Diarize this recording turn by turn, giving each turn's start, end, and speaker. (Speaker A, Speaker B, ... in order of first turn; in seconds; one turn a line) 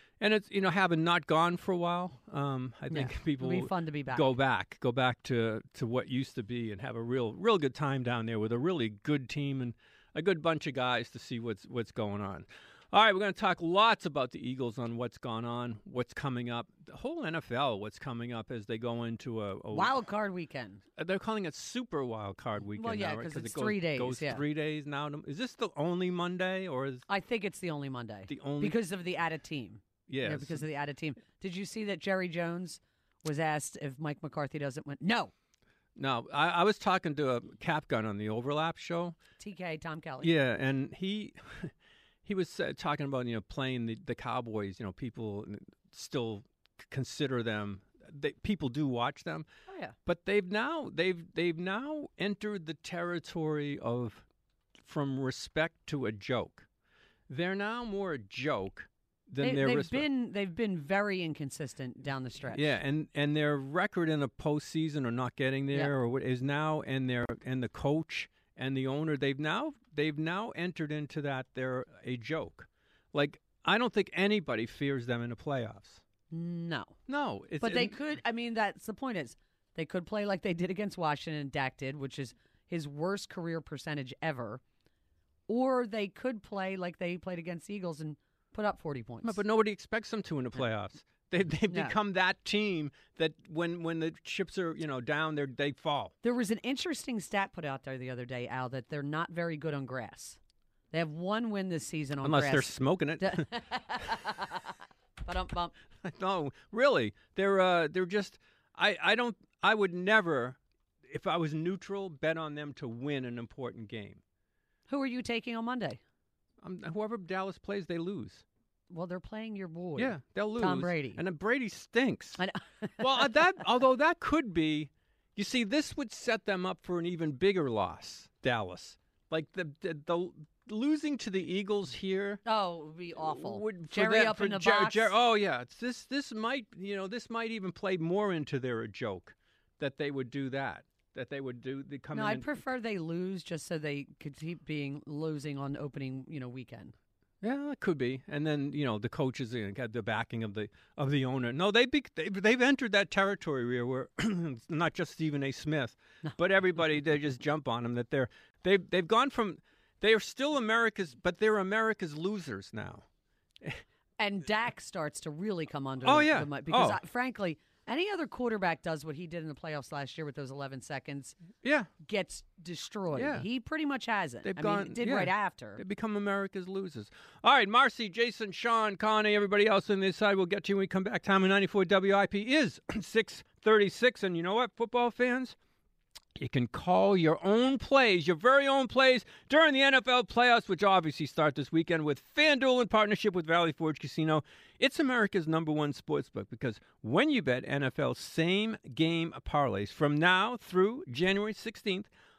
Speaker A: 0.2-20.0
Speaker B: 2.9-4.3
Speaker B: 19.7-20.8
Speaker A: 21.0-27.1
Speaker B: 22.7-24.4
Speaker B: 27.1-35.3
Speaker A: 28.3-28.8
Speaker A: 30.1-30.6
Speaker A: 36.0-39.1
Speaker B: 39.4-40.3
Speaker A: 40.2-41.7
Speaker A: 42.2-49.5
Speaker B: 49.7-49.9
Speaker A: 50.0-54.2
Speaker A: 54.8-56.7
Speaker A: 57.3-60.0
Speaker B: 59.4-62.8
Speaker A: 62.5-76.0
Speaker B: 76.3-77.0
Speaker A: 77.1-78.0
Speaker B: 77.6-84.6
Speaker B: 85.5-89.4
Speaker A: 89.2-96.1
Speaker B: 91.7-91.9
Speaker B: 96.2-100.4
Speaker B: 100.9-104.7
Speaker A: 102.2-103.5
Speaker B: 105.2-105.7
Speaker A: 106.0-110.6
Speaker A: 111.1-114.2
Speaker B: 114.9-116.0
Speaker A: 116.6-118.4
Speaker B: 118.9-121.2
Speaker A: 120.0-122.4
Speaker B: 122.4-123.3
Speaker A: 123.0-132.4
Speaker B: 132.4-135.1
Speaker A: 133.2-142.6
Speaker B: 142.1-146.9
Speaker A: 147.4-163.0
Speaker B: 164.2-171.4
Speaker A: 166.0-167.0
Speaker A: 171.6-171.9
Speaker B: 172.0-175.8
Speaker A: 173.1-173.5
Speaker A: 174.4-185.6
Speaker A: 186.3-202.1